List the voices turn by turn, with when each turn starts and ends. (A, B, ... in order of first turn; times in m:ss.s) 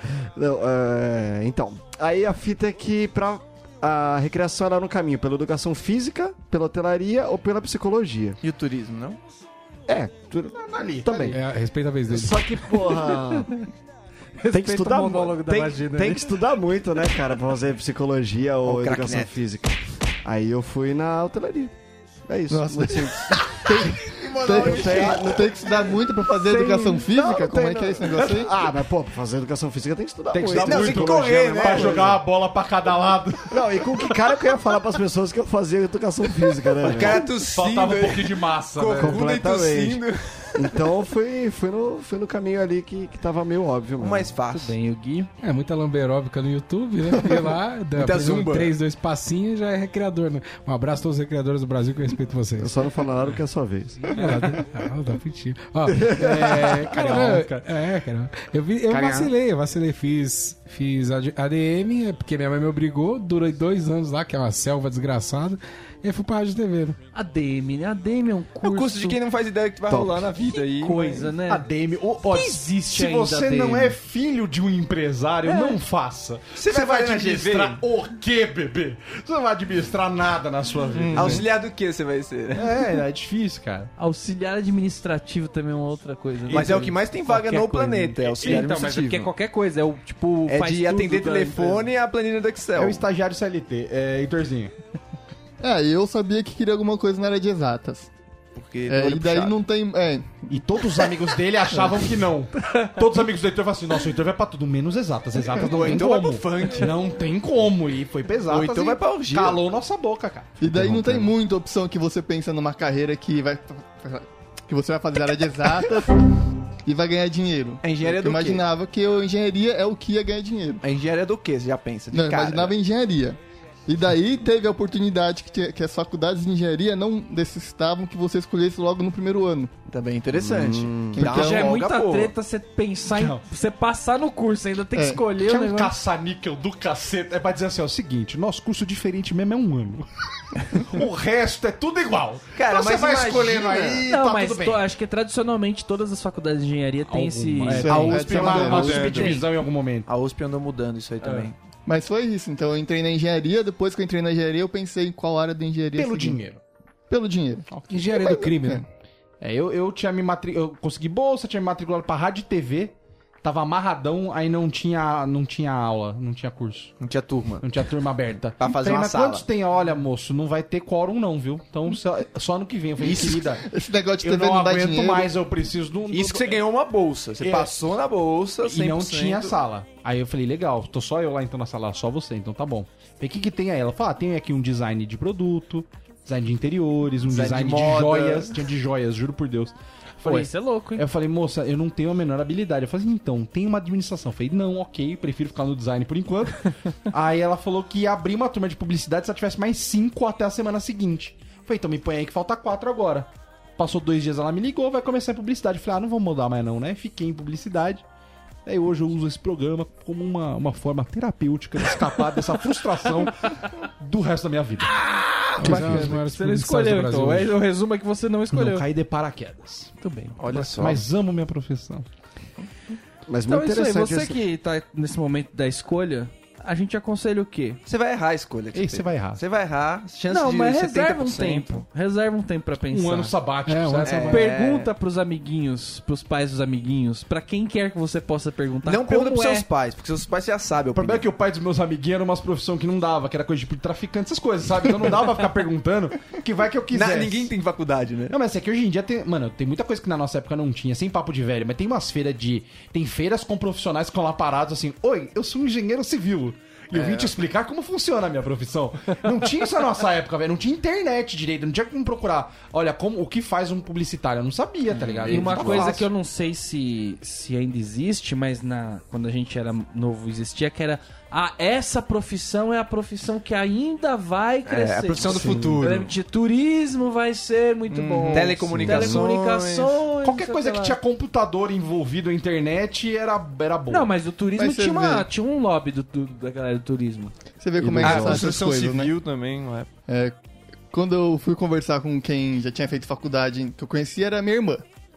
0:00.2-0:08.4 A
0:08.4-0:09.2 B
0:09.9-0:11.4 A
0:10.5-0:11.4 C
0:11.3-0:12.5 D
0:12.1-0:13.5 A
0:14.4-0:16.2 E
0:14.5-0:21.7 A
0:18.6-0:19.3 B
0:22.3-0:25.7 A
0:22.5-0:28.5 F
0:24.2-0:25.4 B
0:24.3-0:25.1 C
0:26.3-0:32.2 A
0:30.3-0:34.1 C
0:30.5-0:32.2 B
0:33.5-0:37.2 A
0:36.8-0:40.8 B
0:36.9-0:39.2 C
0:38.9-0:40.0 A
0:40.6-0:44.3 A
0:44.0-0:44.7 B
0:44.5-0:45.3 E
0:45.4-0:52.7 D
0:48.0-0:48.7 B
0:52.6-0:54.4 A
0:54.2-1:07.0 D
0:55.9-0:56.9 A
0:56.2-0:57.6 C
0:58.9-0:59.3 A
1:07.1-1:09.2 E
1:08.6-1:11.2 B
1:09.9-1:10.3 A
1:10.7-1:11.7 E
1:11.2-1:21.5 C
1:12.3-1:14.0 E
1:15.4-1:15.8 E
1:16.6-1:17.8 B
1:20.9-1:21.4 F
1:21.1-1:22.9 B
1:22.5-1:23.9 C
1:24.0-1:31.9 E
1:26.4-1:27.0 C
1:26.5-1:29.3 B
1:28.4-1:28.7 C
1:30.5-1:33.0 B
1:32.8-1:34.7 C
1:35.6-1:38.1 F
1:38.6-1:39.5 B
1:38.9-1:40.5 F
1:40.5-1:50.6 C
1:45.5-1:47.0 B
1:48.5-1:49.6 B
1:50.6-1:56.1 F
1:50.7-1:51.3 A
1:56.8-2:00.8 F
1:57.8-1:58.6 B
2:00.8-2:02.7 B
2:02.1-2:09.7 F
2:09.9-2:12.3 B
2:10.3-2:11.2 A
2:11.2-2:11.8 F
2:11.2-2:15.9 E
2:13.1-2:13.4 C
2:14.9-2:15.2 F
2:15.4-2:24.8 C
2:22.5-2:24.1 B
2:24.1-2:29.4 E
2:27.1-2:30.1 C
2:27.8-2:29.3 F
2:27.8-2:29.4 B
2:30.1-2:31.6 B
2:31.2-2:31.5 C
2:31.8-2:36.4 F
2:35.9-2:36.6 C
2:37.1-2:38.8 F
2:37.8-2:38.8 D
2:39.4-2:46.9 C
2:47.0-2:47.7 B
2:47.6-2:53.6 C
2:48.6-2:49.4 B
2:53.0-2:55.3 F
2:54.2-2:56.6 C
2:56.1-2:59.6 B
2:57.4-2:57.7 C
2:58.6-3:28.0 C
3:07.3-3:08.6 B
3:10.2-3:11.0 E
3:28.6-3:35.0 C
3:35.2-3:38.9 E
3:35.6-3:37.6 D
3:35.6-3:36.2 C
3:35.7-3:36.1 A
3:38.5-3:39.9 C
3:40.0-3:40.4 E
3:40.4-3:41.0 B
3:40.5-3:42.0 C
3:43.3-3:44.4 A
3:43.4-3:47.8 E
3:47.8-3:51.8 B
3:48.7-3:49.4 C
3:50.3-3:53.4 E
3:52.9-3:54.4 C
3:53.6-3:54.4 D
3:54.0-3:54.9 B
3:54.3-3:59.6 E
3:58.8-4:01.3 B
4:00.9-4:07.5 C
4:06.9-4:08.4 B
4:08.3-4:26.1 C
4:16.9-4:17.3 B
4:24.9-4:25.5 B
4:25.2-4:41.0 E
4:34.7-4:36.1 B
4:35.3-4:35.8 C
4:37.9-4:38.6 F
4:38.2-4:40.0 B
4:38.6-4:39.3 A
4:40.2-4:44.1 C
4:43.9-4:47.3 E
4:44.6-4:45.3 F
4:47.6-4:49.1 F
4:47.8-4:48.5 A
4:48.0-4:49.9 B
4:50.1-4:50.3 F
4:50.9-4:54.8 F